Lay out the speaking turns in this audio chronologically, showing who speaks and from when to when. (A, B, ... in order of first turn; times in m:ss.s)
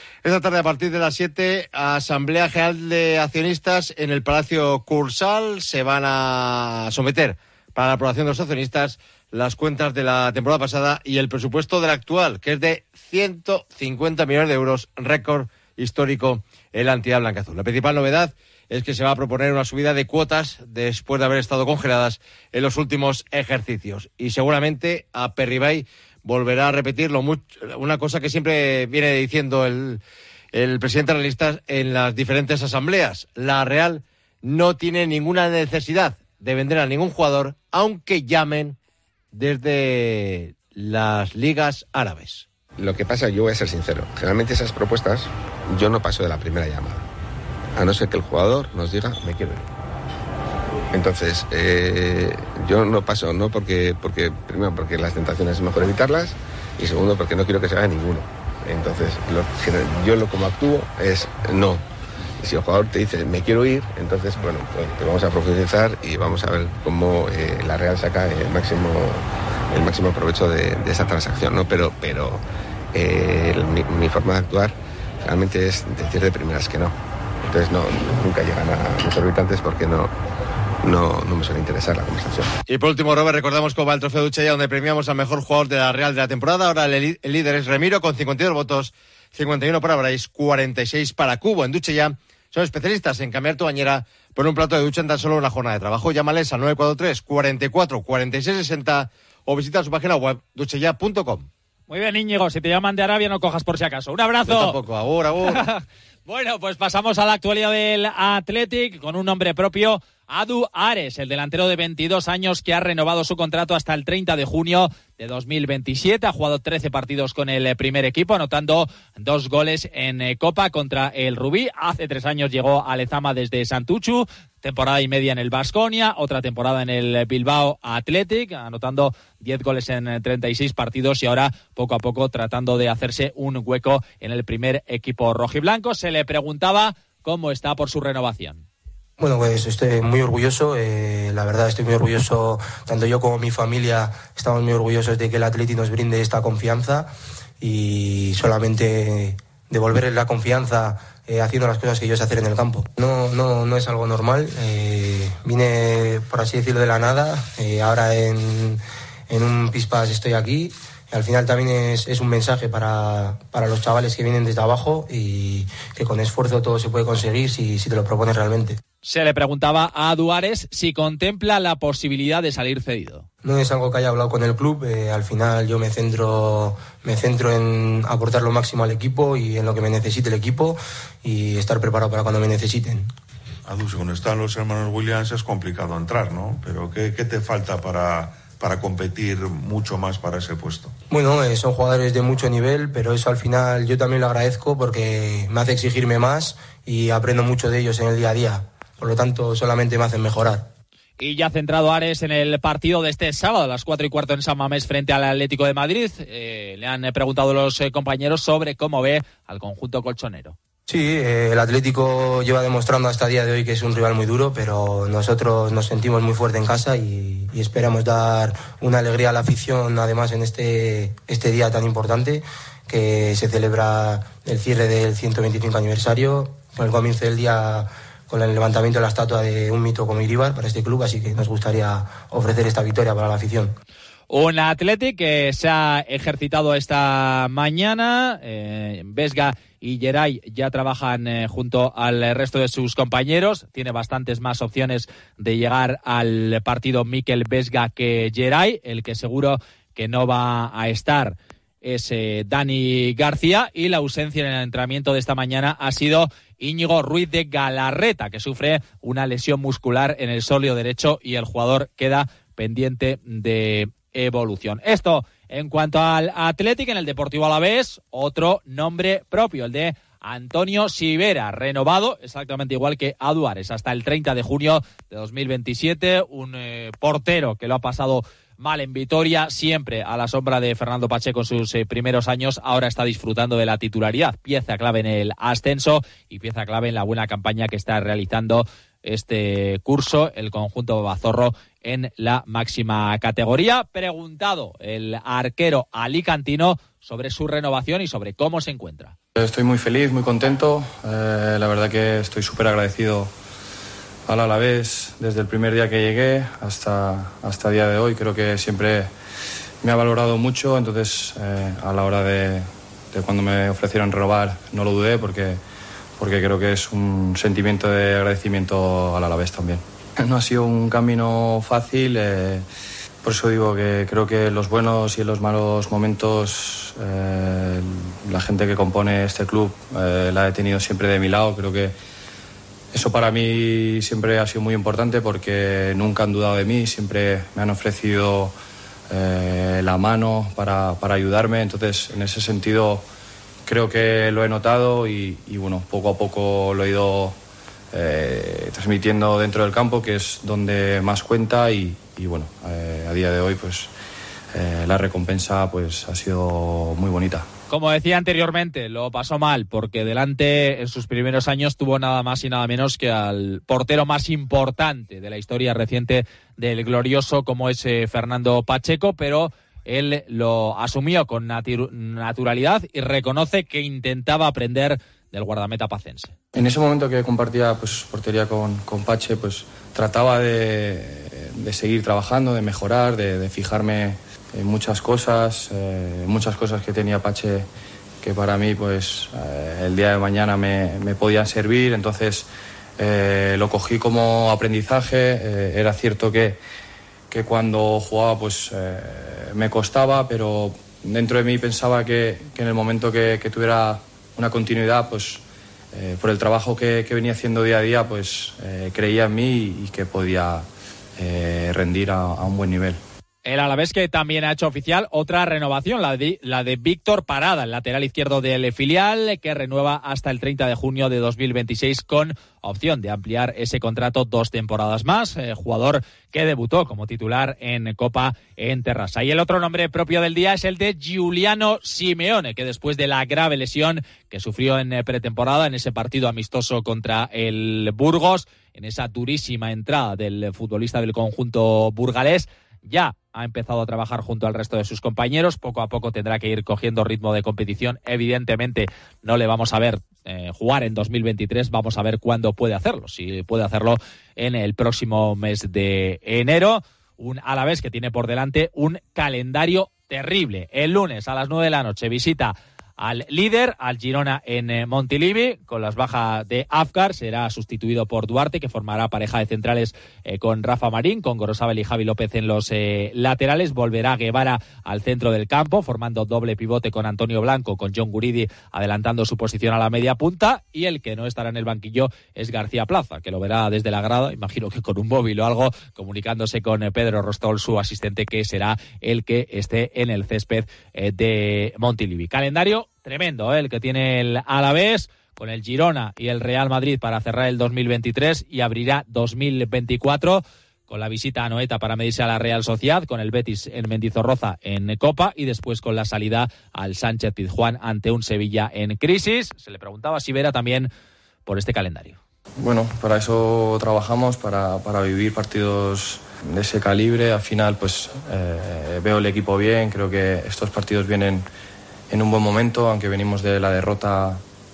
0:00.2-0:30.0 A
0:30.5-0:38.8 A
0:39.3-0:42.5 A
0:42.8-0:47.0 B
0:47.8-0:49.6 B
0:50.9-1:01.8 B
1:02.4-1:12.4 B
1:12.9-1:16.9 B
1:17.5-1:20.1 B
1:20.8-1:22.5 B
1:22.7-1:41.5 A
1:41.9-1:44.8 C
1:44.5-1:45.7 A
1:45.5-2:18.6 C
2:19.2-2:27.1 D
2:27.6-2:48.8 D
2:49.0-2:53.3 C
2:53.4-3:03.1 D
3:03.6-3:11.0 E
3:11.1-3:20.7 D
3:21.2-3:30.6 C
3:30.9-3:53.7 D
3:54.3-4:59.2 C
4:59.4-5:03.3 F
5:04.3-5:09.1 F
5:09.8-5:15.6 F
5:16.2-5:22.6 F
5:23.2-5:32.0 F
5:32.9-5:38.5 F
5:39.1-5:43.0 F
5:43.6-5:47.4 F
5:47.9-5:53.9 F
5:54.5-5:57.5 F
5:57.7-6:16.4 C
6:16.5-6:27.7 F
6:28.2-6:36.6 F
6:37.3-6:53.0 F
6:53.4-8:30.9 C
8:31.5-8:32.2 C
8:32.6-8:41.5 F
8:42.1-8:44.4 F